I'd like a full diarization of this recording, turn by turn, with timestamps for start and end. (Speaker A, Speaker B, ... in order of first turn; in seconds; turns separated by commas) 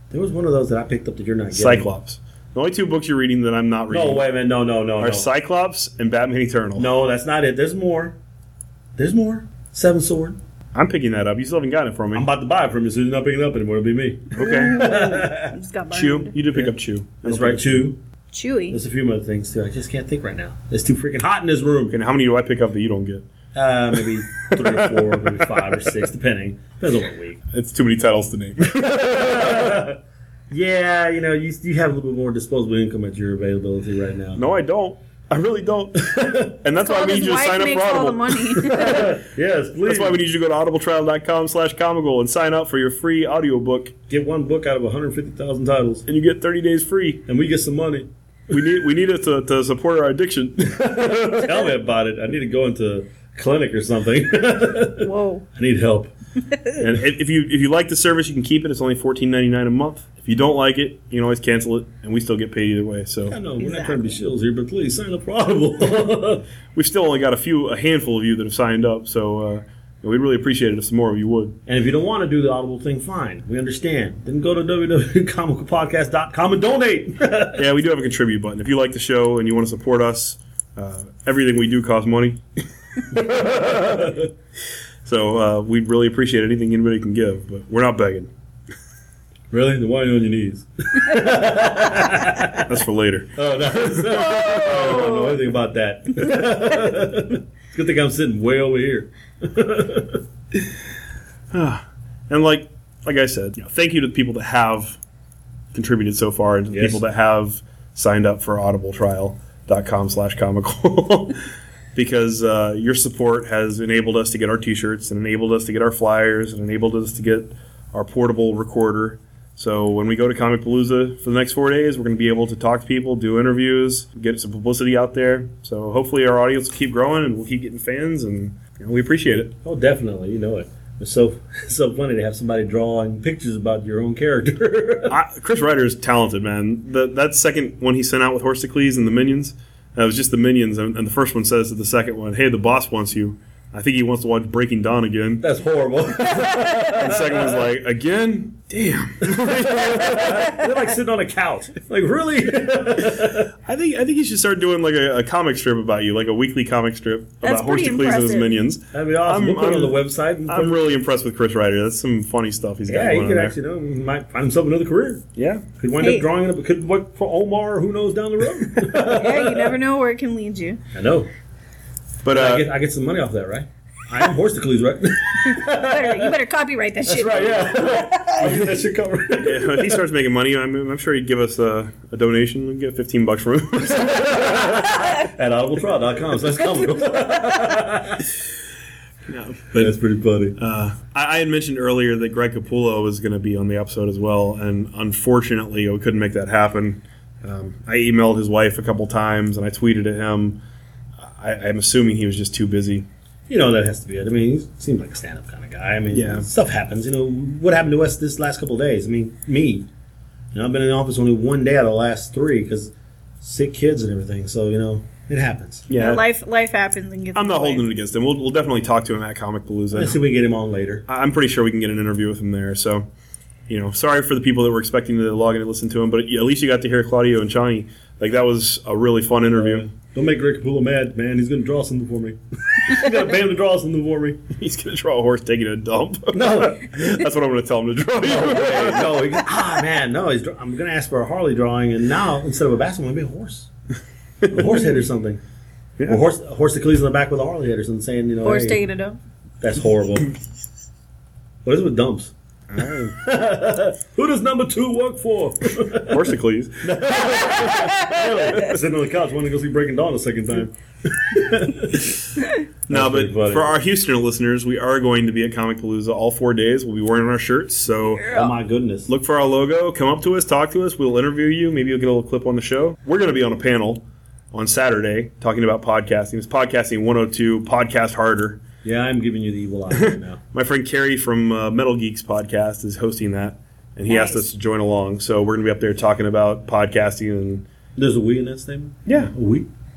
Speaker A: 0.1-1.9, Speaker B: 1.5-4.3, Speaker A: 3.9-5.3, Speaker B: 5.0-6.9, Speaker A: 6.8-8.2, Speaker A: 9.0-10.4, Speaker B: 10.7-12.3, Speaker A: 12.1-15.6, Speaker B: 14.3-14.9, Speaker C: 14.4-16.4, Speaker B: 15.9-17.9, Speaker A: 16.5-18.0, Speaker C: 18.3-18.8, Speaker A: 18.7-22.0, Speaker B: 21.9-23.3, Speaker A: 23.5-27.4, Speaker B: 23.9-25.8, Speaker B: 27.5-29.8, Speaker A: 28.9-30.0, Speaker A: 30.5-34.5, Speaker B: 34.4-39.1, Speaker C: 36.8-39.1, Speaker A: 38.6-40.2, Speaker B: 39.9-43.9, Speaker A: 44.1-46.1, Speaker B: 46.1-47.2, Speaker A: 47.3-48.1, Speaker B: 48.5-51.6, Speaker A: 50.7-56.1, Speaker C: 55.0-55.5, Speaker C: 56.5-56.8, Speaker B: 56.8-63.4, Speaker A: 63.3-66.5, Speaker C: 63.6-64.2, Speaker B: 66.8-71.6, Speaker A: 71.7-77.6, Speaker B: 77.6-84.1, Speaker A: 83.1-84.3, Speaker B: 85.0-88.3, Speaker A: 89.5-92.7, Speaker B: 92.6-95.4, Speaker A: 93.3-100.2, Speaker B: 101.5-105.0, Speaker B: 105.7-129.6, Speaker A: 106.7-107.0, Speaker A: 129.6-135.2, Speaker B: 135.1-145.4, Speaker A: 145.4-147.5, Speaker B: 147.0-150.6, Speaker A: 149.2-153.5, Speaker B: 153.7-163.6, Speaker C: 157.4-158.5, Speaker A: 158.9-160.8, Speaker A: 162.9-165.2, Speaker B: 165.4-165.7, Speaker A: 165.8-169.8, Speaker C: 166.0-166.3, Speaker C: 169.0-170.8, Speaker A: 170.9-171.3, Speaker B: 172.2-172.7, Speaker A: 172.3-176.4, Speaker C: 175.5-178.6, Speaker A: 177.0-180.0, Speaker B: 178.4-178.8, Speaker B: 179.4-184.8, Speaker A: 184.0-188.3, Speaker B: 189.3-190.0, Speaker A: 189.7-190.6, Speaker B: 190.6-200.6, Speaker B: 201.2-203.1, Speaker A: 203.5-209.9, Speaker B: 206.1-206.5, Speaker A: 210.5-215.9, Speaker B: 215.9-216.2, Speaker C: 215.9-217.8, Speaker B: 217.3-220.2, Speaker A: 219.9-221.1, Speaker B: 221.1-223.1, Speaker B: 223.7-229.9, Speaker A: 229.6-234.5, Speaker B: 234.5-239.4, Speaker A: 236.3-237.2, Speaker A: 238.2-243.7, Speaker A: 244.5-245.4, Speaker A: 246.1-248.8, Speaker C: 248.4-249.2, Speaker A: 249.6-250.3, Speaker A: 251.7-252.3, Speaker B: 252.7-253.2, Speaker A: 253.1-262.2, Speaker B: 256.0-257.9, Speaker C: 257.9-258.6, Speaker B: 262.9-268.3, Speaker A: 262.9-263.7, Speaker C: 268.2-268.5, Speaker A: 268.3-269.1, Speaker B: 269.1-278.6, Speaker A: 278.8-280.4, Speaker B: 279.9-287.7, Speaker C: 284.1-284.4, Speaker A: 288.0-289.7, Speaker B: 289.1-289.3